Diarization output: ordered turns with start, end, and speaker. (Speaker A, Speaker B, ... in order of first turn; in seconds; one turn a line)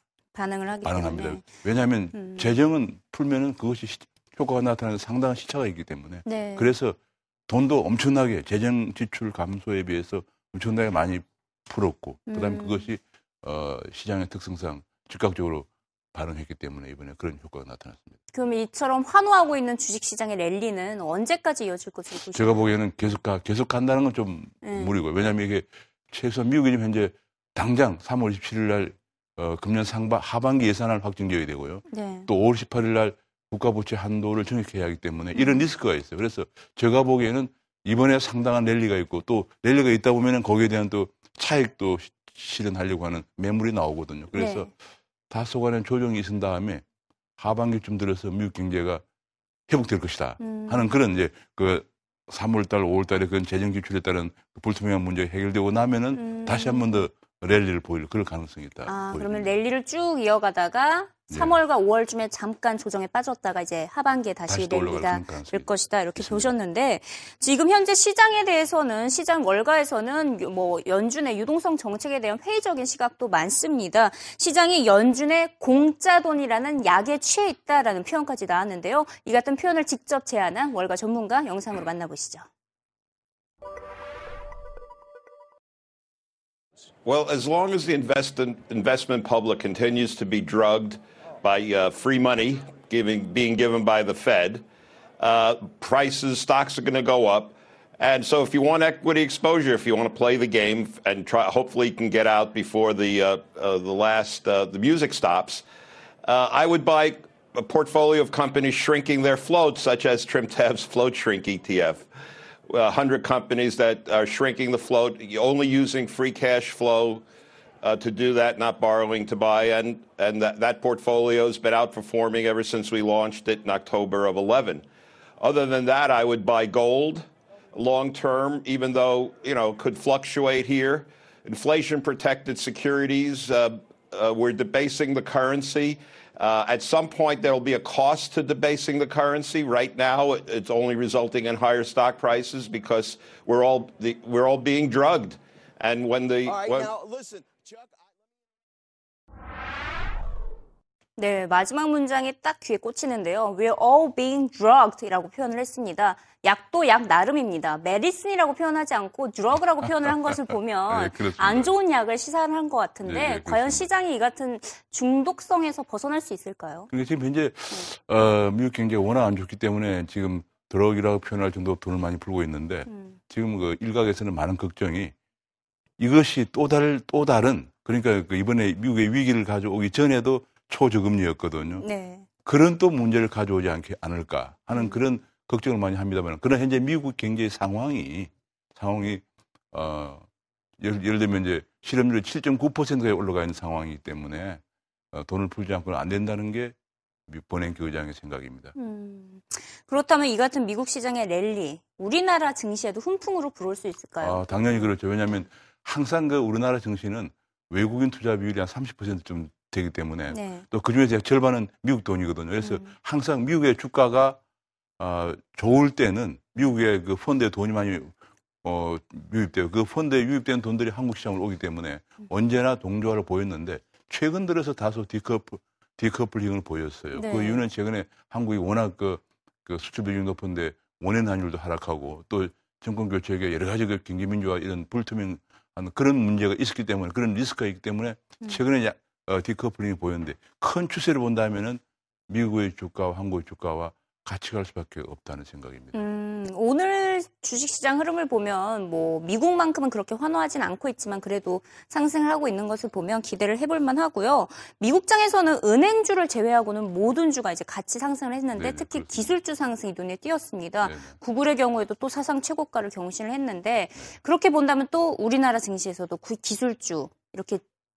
Speaker A: 0.3-1.5
Speaker B: 0.8-18.1
Speaker A: 2.1-2.5
Speaker A: 6.2-6.7
Speaker A: 12.3-12.8
Speaker A: 18.3-22.7
Speaker B: 22.3-44.7
Speaker A: 24.6-24.9
Speaker A: 31.9-32.3
Speaker A: 35.3-35.6
Speaker A: 44.3-44.7
Speaker B: 45.3-46.8
Speaker B: 47.4-49.0
Speaker B: 49.7-59.5
Speaker A: 50.4-51.0
Speaker A: 56.1-57.0
Speaker A: 58.9-82.4
Speaker B: 61.3-61.5
Speaker B: 64.5-66.5
Speaker C: 87.0-94.6
Speaker C: 95.2-105.6
Speaker C: 106.2-112.0
Speaker C: 112.7-117.2
Speaker C: 117.8-124.8
Speaker C: 125.4-146.9
Speaker A: 151.2-166.9
Speaker B: 159.8-161.7
Speaker B: 163.0-163.9
Speaker B: 166.9-175.1
Speaker A: 172.9-173.2
Speaker B: 176.0-181.8
Speaker A: 181.8-182.2
Speaker B: 182.4-190.2
Speaker A: 184.7-185.0
Speaker B: 190.8-196.7
Speaker B: 197.3-198.7
Speaker A: 198.8-204.9
Speaker B: 204.2-214.4
Speaker A: 210.3-210.7
Speaker A: 212.6-212.9
Speaker B: 215.0-245.9
Speaker A: 227.1-227.7
Speaker A: 245.9-267.6
Speaker B: 258.6-259.3
Speaker B: 260.8-261.1